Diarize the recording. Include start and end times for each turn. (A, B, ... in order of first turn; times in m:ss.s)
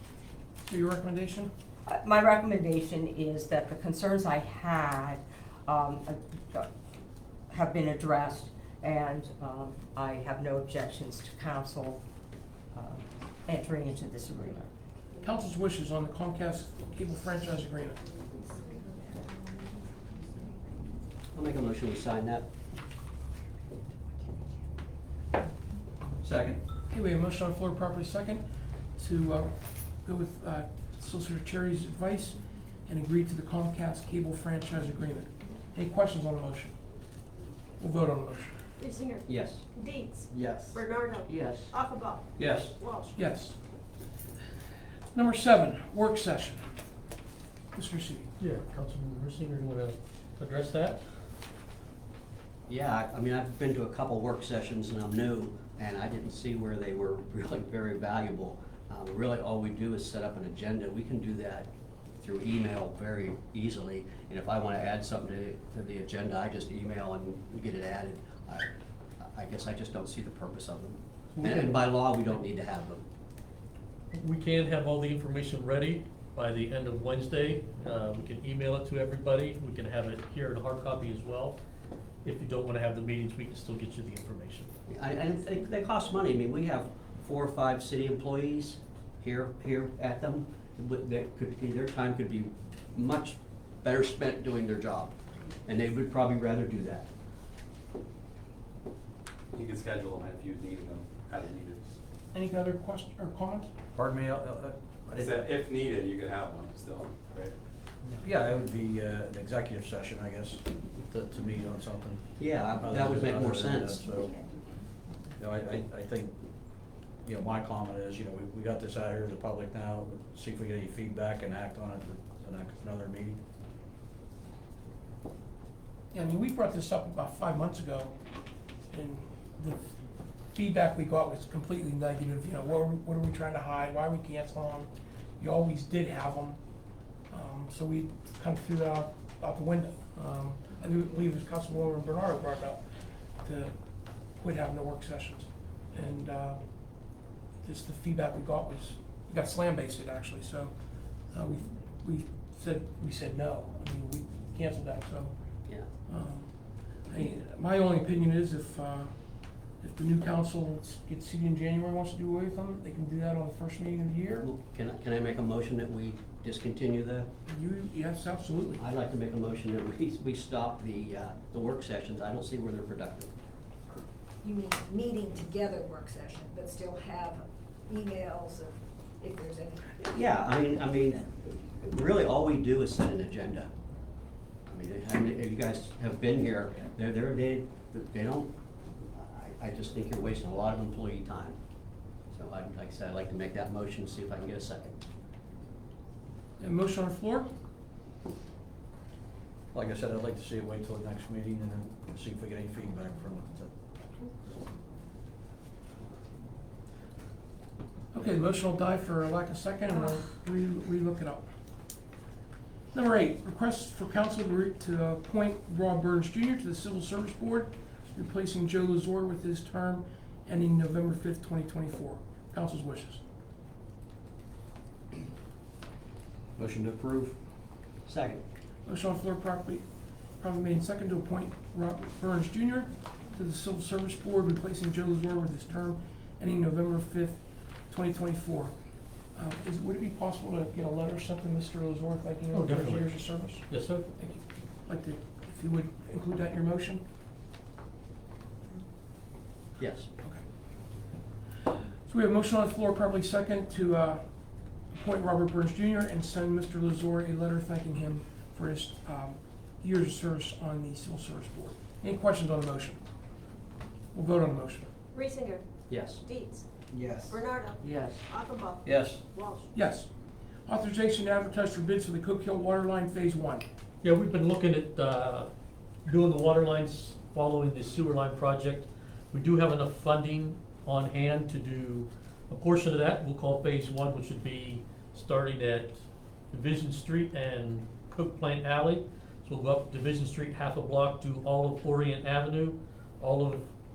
0:00.7-0:01.5 A
0:01.9-0:06.7 B
0:07.5-0:12.0 B
0:12.7-0:14.7 B
0:15.2-0:18.0 A
0:21.3-0:22.5 C
0:26.2-0:26.6 D
0:26.9-0:28.4 A
0:29.0-0:36.8 A
0:37.8-0:38.6 A
0:38.8-0:43.1 E
0:39.3-0:39.6 C
0:40.7-0:41.7 B
0:42.4-0:42.7 D
0:43.1-0:43.6 A
0:45.1-0:46.7 A
0:47.8-0:48.3 A
0:48.4-0:51.0 F
0:52.7-1:01.7 C
1:02.2-1:08.7 C
1:09.2-1:13.0 C
1:11.4-1:11.8 F
1:14.1-1:21.6 F
1:22.2-1:24.7 F
1:24.9-1:35.1 C
1:35.7-1:37.1 C
1:39.6-1:41.9 G
1:42.3-1:43.7 A
1:44.0-1:45.5 D
1:45.2-1:47.5 G
1:48.2-1:54.4 D
1:52.4-1:54.0 C
1:55.4-1:56.4 D
1:57.2-2:03.4 D
2:06.1-2:08.2 A
2:08.9-2:09.8 A
2:10.5-2:16.6 A
2:17.3-2:22.8 A
2:23.4-2:23.8 A
2:24.3-2:26.6 A
2:27.6-2:30.7 A
2:31.3-2:35.3 A
2:36.1-2:36.5 A
2:37.1-2:39.1 A
2:39.8-2:44.5 A
2:44.4-2:47.3 C
2:47.5-2:48.8 A
2:48.8-2:53.3 C
2:54.4-2:59.9 H
2:59.9-3:03.7 C
3:04.7-3:08.5 C
3:09.2-3:11.6 C
3:12.3-3:15.0 C
3:16.6-3:17.5 A
3:19.7-3:23.7 D
3:28.1-3:31.5 A
3:32.9-3:43.2 A
3:46.6-3:47.4 C
3:48.1-3:48.4 C
3:48.9-3:49.8 A
3:50.4-3:58.7 A
3:59.4-4:07.0 A
4:02.5-4:04.1 F
4:09.8-4:10.1 C
4:12.1-4:14.2 A
4:14.9-4:23.0 A
4:24.1-4:24.9 A
4:25.1-4:25.6 E
4:25.9-4:26.2 C
4:26.2-4:26.6 E
4:27.1-4:28.2 B
4:27.2-4:28.8 E
4:29.3-4:29.7 E
4:29.7-4:30.1 A
4:30.7-4:33.7 A
4:34.0-4:35.5 F
4:36.1-4:46.0 F
4:46.5-4:53.7 F